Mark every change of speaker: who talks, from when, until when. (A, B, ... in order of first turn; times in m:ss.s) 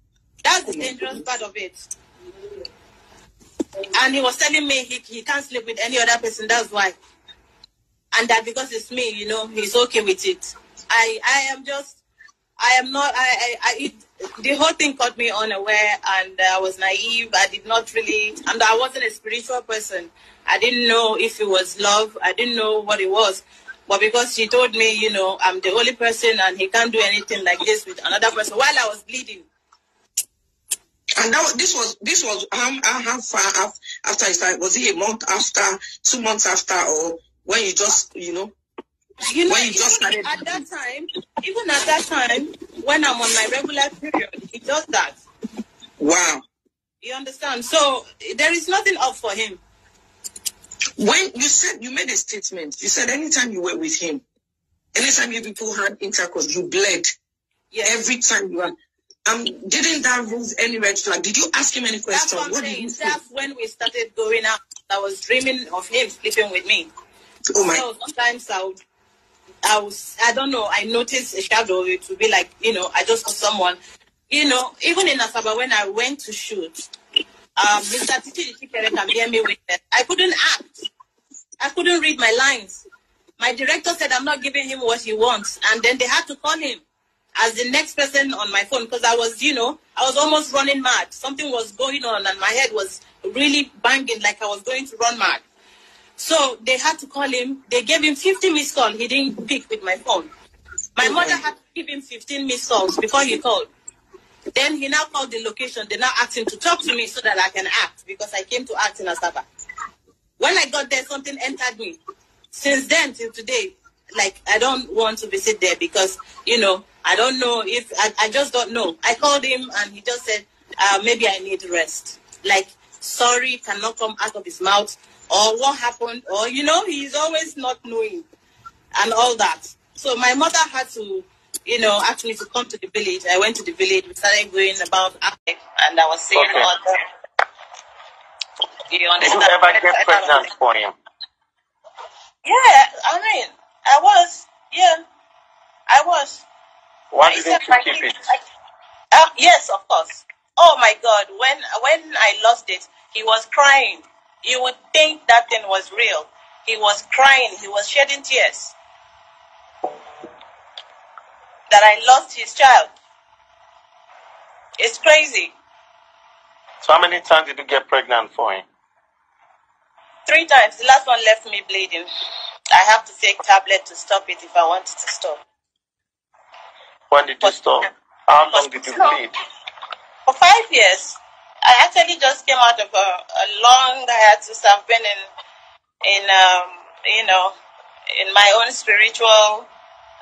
0:00.4-0:01.8 A
0:00.7-0:01.2 B
0:03.9-0:07.0 A
0:08.1-0:12.0 A
0:12.6-0:29.5 A
0:31.2-0:38.5 B
0:39.3-0:45.2 A
0:39.5-0:40.6 B
0:46.0-0:46.4 B
0:47.0-0:49.6 A
0:51.0-0:54.2 B
0:54.9-0:57.1 B
0:57.7-0:58.0 A
0:57.8-0:58.7 B
0:59.2-1:03.2 B
1:02.1-1:06.9 A
1:07.5-1:07.8 B
1:07.7-1:08.8 A
1:09.6-1:13.8 A
1:14.3-1:16.8 A
1:17.6-1:20.8 A
1:21.6-1:22.8 A
1:23.4-1:26.8 A
1:27.4-1:35.4 A
1:36.2-1:40.3 A
1:41.0-1:43.7 A
1:41.0-1:41.4 B
1:44.5-1:49.4 A
1:50.4-1:52.0 A
1:52.5-2:08.2 A
2:09.0-2:17.0 A
2:16.3-2:16.7 C
2:18.9-2:20.4 A
2:19.2-2:20.9 C
2:22.4-2:25.0 A
2:25.9-2:26.4 A
2:27.1-2:28.1 C
2:27.2-2:28.1 A
2:29.1-2:38.7 A
2:41.7-2:42.9 A
2:44.8-2:45.5 A
2:46.8-2:48.6 C
2:50.2-2:52.1 A
2:52.7-2:55.4 A
2:57.1-2:59.4 C
2:58.5-2:59.2 A
3:00.3-3:05.2 A
3:06.0-3:07.5 A
3:08.1-3:09.7 A